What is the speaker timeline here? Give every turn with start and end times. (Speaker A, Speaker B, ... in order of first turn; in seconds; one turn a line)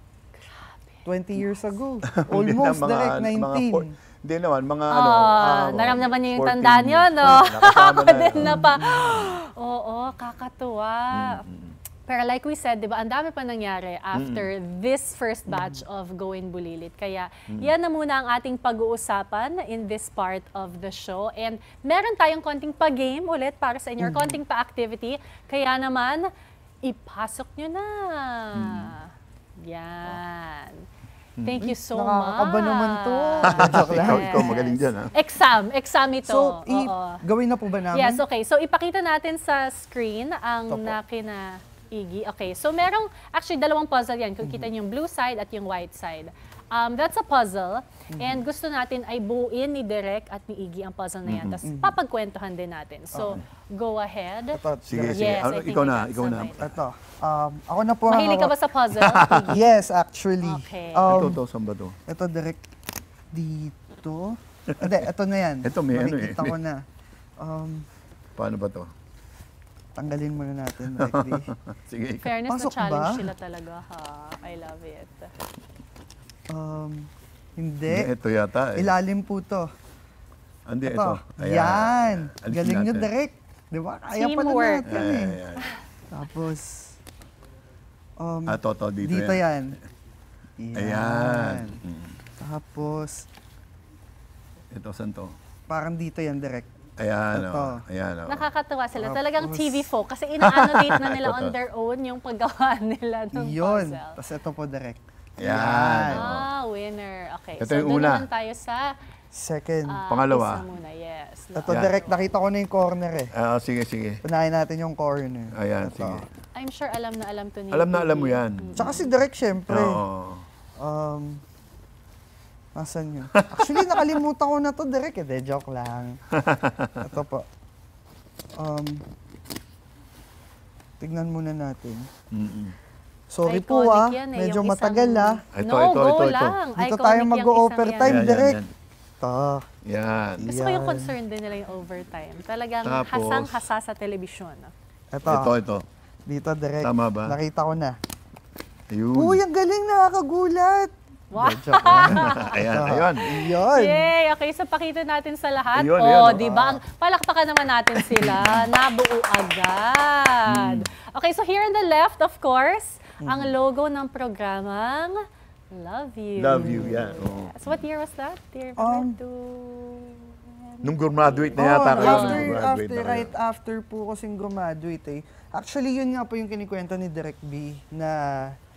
Speaker A: 0.3-1.0
Speaker B: 1.1-3.9
Speaker C: 2.1-9.3
Speaker A: 4.9-11.4
Speaker B: 8.4-9.2
Speaker C: 11.1-11.8
Speaker A: 12.1-26.2
Speaker C: 14.1-14.5
Speaker B: 15.5-15.8
Speaker B: 24.0-24.4
Speaker A: 26.8-29.1
Speaker C: 28.5-28.9
Speaker A: 29.6-30.8
Speaker A: 31.4-37.2
Speaker B: 31.6-34.6
Speaker C: 33.5-35.1
Speaker B: 36.2-38.2
Speaker A: 37.9-56.7
Speaker B: 40.7-41.0
Speaker B: 44.4-44.7
Speaker B: 48.1-48.4
Speaker C: 51.2-51.6
Speaker B: 51.6-52.0
Speaker B: 53.1-53.4
Speaker B: 54.5-55.4
Speaker C: 54.9-56.8
Speaker B: 56.6-58.5
Speaker A: 58.1-59.6
Speaker C: 58.9-59.5
Speaker B: 59.5-61.4
Speaker A: 60.4-61.2
Speaker C: 61.1-62.0
Speaker B: 62.1-62.6
Speaker B: 63.3-66.8
Speaker C: 64.8-65.0
Speaker C: 65.6-66.5
Speaker B: 67.4-67.8
Speaker C: 68.4-68.9
Speaker B: 70.0-71.5
Speaker C: 71.0-72.3
Speaker A: 72.2-75.3
Speaker B: 72.5-73.3
Speaker B: 76.5-78.1
Speaker C: 77.9-78.9
Speaker B: 78.7-79.7
Speaker C: 80.7-83.1
Speaker B: 80.8-85.4
Speaker A: 84.1-85.0
Speaker C: 84.9-85.7
Speaker B: 86.1-87.0
Speaker B: 88.2-89.8
Speaker C: 88.5-89.4
Speaker B: 90.6-91.8
Speaker C: 90.7-92.2
Speaker B: 92.4-93.3
Speaker C: 94.7-95.3
Speaker B: 95.7-96.7
Speaker C: 97.0-98.5
Speaker B: 97.3-97.8
Speaker A: 98.3-104.2
Speaker B: 99.0-99.9
Speaker C: 100.4-101.5
Speaker B: 103.3-106.3
Speaker C: 105.4-106.5
Speaker A: 106.1-108.9
Speaker C: 107.6-108.3
Speaker B: 109.3-110.0
Speaker A: 109.9-112.2
Speaker C: 110.1-110.6
Speaker B: 111.5-113.3
Speaker C: 113.3-114.2
Speaker B: 114.2-116.2
Speaker C: 115.5-116.3
Speaker A: 116.5-119.0
Speaker C: 117.7-118.9
Speaker B: 118.8-120.0
Speaker C: 119.7-120.4
Speaker B: 120.8-121.4
Speaker B: 122.7-126.2
Speaker C: 123.3-124.1
Speaker C: 126.4-127.0
Speaker B: 127.0-127.4
Speaker B: 128.6-129.0
Speaker B: 131.0-132.1
Speaker C: 132.3-132.7
Speaker B: 133.3-135.4
Speaker A: 133.4-138.2
Speaker C: 135.5-136.6
Speaker B: 136.8-138.6
Speaker C: 138.0-138.7
Speaker B: 139.2-139.7
Speaker C: 139.8-140.4
Speaker B: 140.4-141.1
Speaker A: 140.4-144.7
Speaker C: 142.8-143.7
Speaker B: 145.1-145.6
Speaker C: 145.2-145.8
Speaker B: 146.3-147.9
Speaker C: 146.8-147.3
Speaker C: 148.9-149.4
Speaker B: 149.1-154.1
Speaker A: 151.3-152.6
Speaker C: 152.0-153.3
Speaker A: 153.4-172.6
Speaker C: 155.7-156.8
Speaker C: 158.2-158.7
Speaker C: 160.5-160.9
Speaker B: 163.2-163.5
Speaker C: 166.4-167.8
Speaker B: 166.6-167.0
Speaker B: 168.8-169.2
Speaker C: 170.8-173.3
Speaker B: 171.6-178.5